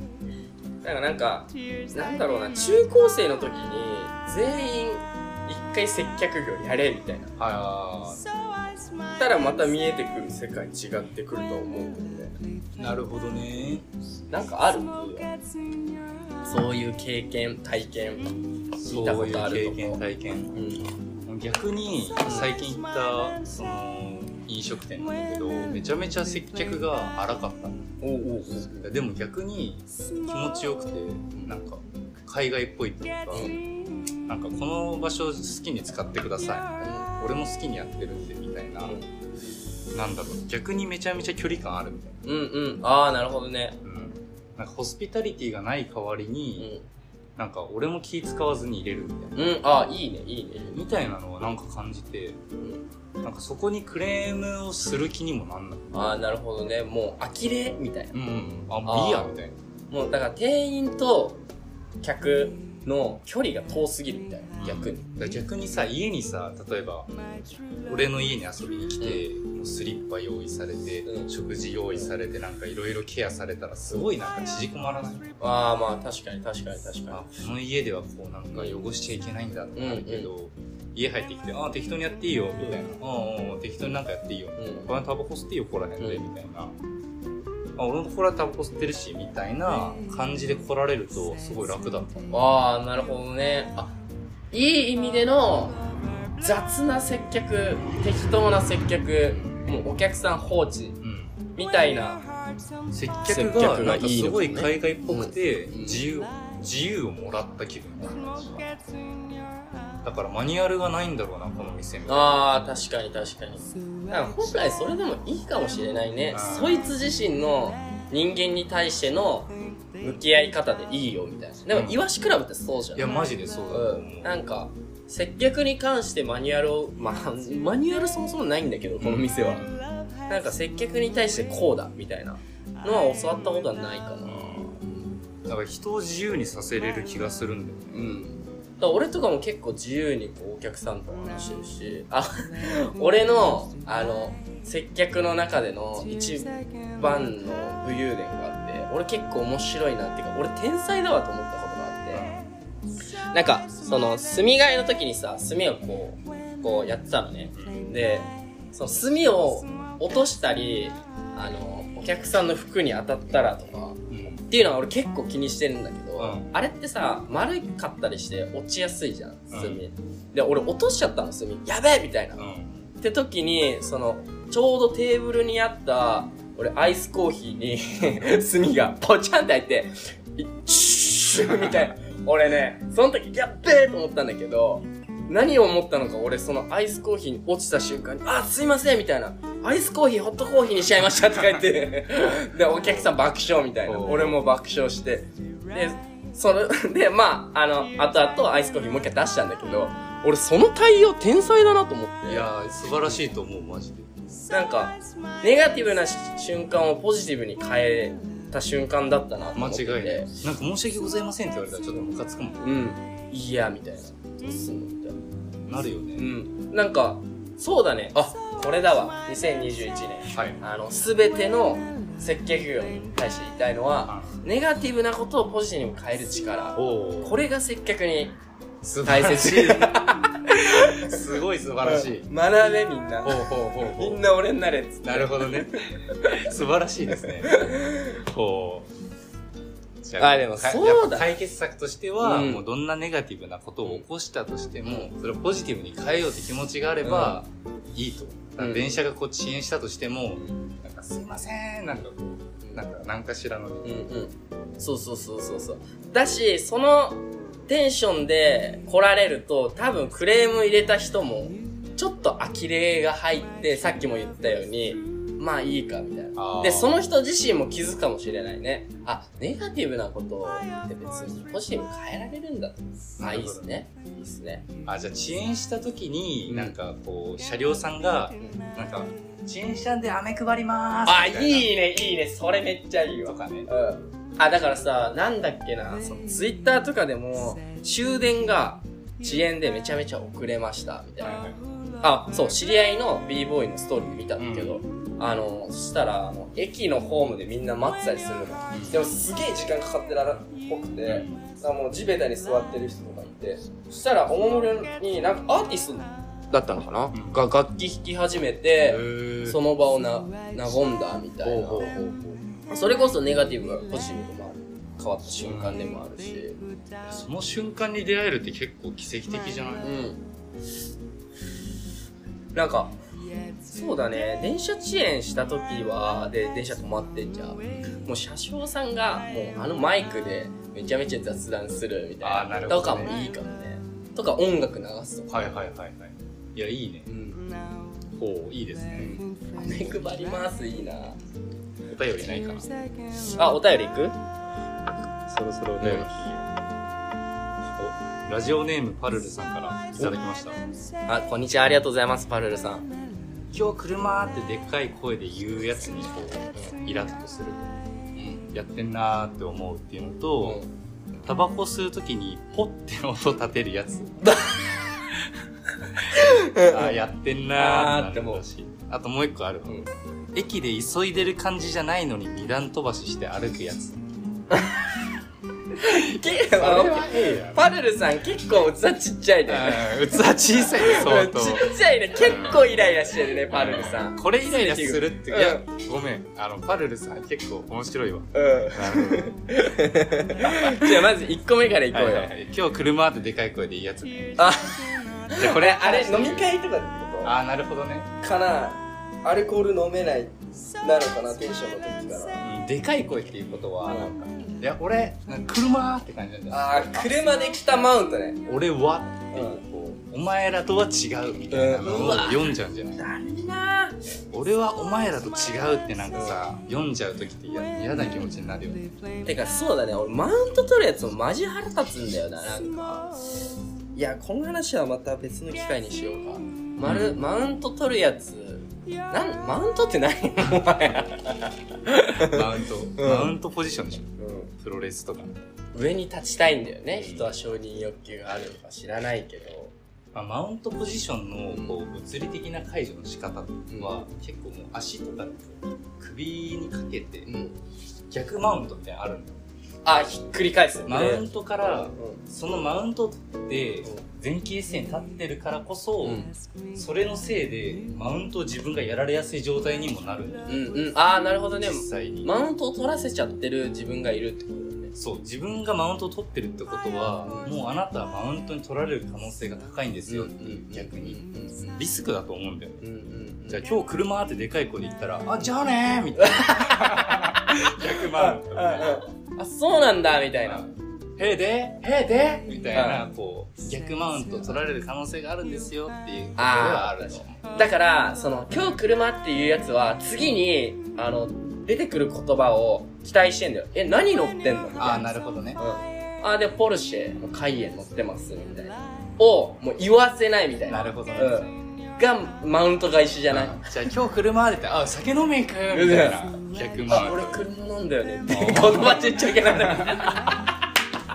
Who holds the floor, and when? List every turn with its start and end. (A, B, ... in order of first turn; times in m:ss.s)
0:00.8-0:07.3 A
0:07.4-0:08.3 B
0:09.2-0:12.4 A
0:12.8-0:13.9 B
0:14.3-0:15.3 A
0:16.4-0:20.0 A
0:18.8-0:20.6 B
0:20.5-0:20.9 A
0:21.2-0:27.8 B
0:22.2-0:22.5 A
0:28.0-0:28.9 A
0:28.8-0:33.5 B
0:33.3-0:33.6 A
0:34.2-0:39.0 B
0:36.8-0:37.1 A
0:38.8-0:39.1 A
0:39.9-0:42.2 B
0:42.2-0:43.8 A
0:43.8-0:46.7 B
0:46.6-0:46.8 A
0:47.4-0:49.6 B
0:49.4-0:50.8 A
0:50.7-0:52.4 B
0:53.2-0:56.1 B
0:55.9-0:58.2 A
0:58.1-0:59.5 B
0:58.8-0:59.4 A
0:59.9-1:01.4 A
1:02.0-1:05.1 A
1:04.6-1:07.1 B
1:07.8-1:15.3 B
1:15.4-1:17.2 A
1:17.1-1:26.8 B
1:18.5-1:18.8 A
1:19.8-1:20.3 A
1:24.6-1:24.9 A
1:26.0-1:26.2 A
1:27.8-1:32.4 B
1:32.3-1:34.0 A
1:34.5-1:35.8 A
1:36.4-1:41.0 A
1:41.0-1:41.3 B
1:41.5-1:42.2 A
1:42.9-1:48.8 B
1:43.3-1:46.0 A
1:50.0-1:52.4 B
1:52.1-2:03.1 A
1:56.3-1:56.9 B
2:01.7-2:02.0 B
2:02.9-2:04.4 B
2:03.7-2:09.7 A
2:09.0-2:09.8 B
2:10.3-2:15.2 A
2:14.2-2:14.7 B
2:15.4-2:18.1 B
2:17.9-2:32.2 A
2:32.1-2:32.5 B
2:33.3-2:52.4 A
2:37.6-2:37.9 B
2:44.1-2:44.4 B
2:46.2-2:46.5 B
2:49.5-2:49.8 B
2:52.4-2:52.8 B
2:53.0-3:22.5 A
3:13.8-3:14.4 B
3:22.2-3:24.1 B
3:24.5-3:30.3 A
3:29.5-3:32.7 B
3:32.6-3:35.2 A
3:35.6-3:36.3 B
3:36.2-3:48.4 A
3:40.3-3:40.6 B
3:44.1-3:44.4 B
3:46.7-3:47.4 B
3:48.8-3:50.0 B
3:49.0-3:51.2 A
3:50.8-3:52.3 B
3:51.8-3:56.5 A
3:53.2-3:54.2 B
3:55.0-3:58.9 B
3:57.2-3:58.2 A
4:00.0-4:14.0 B
4:00.2-4:01.3 A
4:02.2-4:02.6 A
4:04.8-4:05.1 A
4:07.0-4:07.4 A
4:08.6-4:08.9 A
4:12.6-4:12.9 A
4:13.8-4:34.6 A
4:26.3-4:26.9 B
4:33.2-4:33.7 B
4:34.8-4:41.7 B
4:36.5-4:36.7 A
4:41.0-4:51.4 A
4:43.2-4:43.7 B
4:51.2-4:51.6 B
4:52.0-5:12.0 A
4:54.4-4:54.8 B
4:58.7-4:59.0 B
5:01.1-5:01.4 B
5:07.1-5:07.4 B
5:08.8-5:09.6 B
5:11.4-5:12.4 B
5:12.7-5:16.6 A
5:15.4-5:15.9 B
5:17.0-5:20.0 B
5:19.8-5:20.2 A
5:22.5-5:23.0 A
5:23.6-5:35.4 A
5:27.6-5:28.0 B
5:32.2-5:33.2 B
5:35.3-5:37.1 B
5:37.1-5:37.4 A
5:38.2-5:39.2 B
5:39.0-5:41.2 A
5:41.9-5:42.7 B
5:43.2-5:44.2 A
5:45.2-5:46.4 B
5:45.8-5:46.1 A
5:47.8-5:50.6 B
5:51.1-5:52.9 A
5:53.5-5:57.8 B
5:58.2-5:58.4 A
5:58.5-6:00.6 B
6:00.4-6:00.7 A
6:01.2-6:04.3 B
6:04.2-6:04.6 A
6:05.1-6:05.4 B
6:06.0-6:14.0 B
6:06.1-6:07.0 A
6:07.5-6:08.4 A
6:14.5-6:14.8 A
6:15.7-6:25.6 A
6:15.8-6:17.7 B
6:19.5-6:29.3 B
6:28.3-6:32.3 A
6:30.4-6:31.0 B
6:31.9-6:34.6 B
6:34.4-6:37.3 A
6:35.3-6:36.5 B
6:37.2-6:38.1 B
6:38.2-6:42.4 A
6:42.4-6:47.1 B
6:43.8-6:44.1 A
6:46.5-6:48.4 A
6:48.4-6:53.0 B
6:49.3-6:49.6 A
6:51.5-6:54.0 A
6:54.3-6:58.9 B
6:56.1-6:56.4 A
6:57.9-6:58.2 A
6:59.2-7:03.2 A
7:03.9-7:13.3 A
7:06.8-7:07.2 B
7:12.2-7:15.4 B
7:14.2-7:14.5 A
7:15.7-7:19.7 A
7:17.0-7:17.3 B
7:20.1-7:27.3 B
7:21.5-7:21.8 A
7:23.7-7:24.0 A
7:27.2-7:27.6 A
7:28.1-7:29.4 B
7:29.8-7:32.2 A
7:30.8-7:40.9 B
7:36.0-7:36.3 A
7:40.5-7:44.9 A
7:41.6-7:42.3 B
7:45.0-7:52.8 B
7:47.2-7:47.5 A
7:50.1-7:51.8 A
7:52.8-7:53.6 A
7:53.5-7:59.0 B
7:56.2-7:57.3 A
7:57.8-8:00.7 A
8:00.4-8:07.4 B
8:02.7-8:03.0 A
8:06.4-8:23.7 A
8:14.8-8:15.6 B
8:20.7-8:21.5 B
8:23.3-8:27.4 B
8:25.7-8:26.2 A
8:26.9-8:30.4 A
8:28.3-8:30.1 B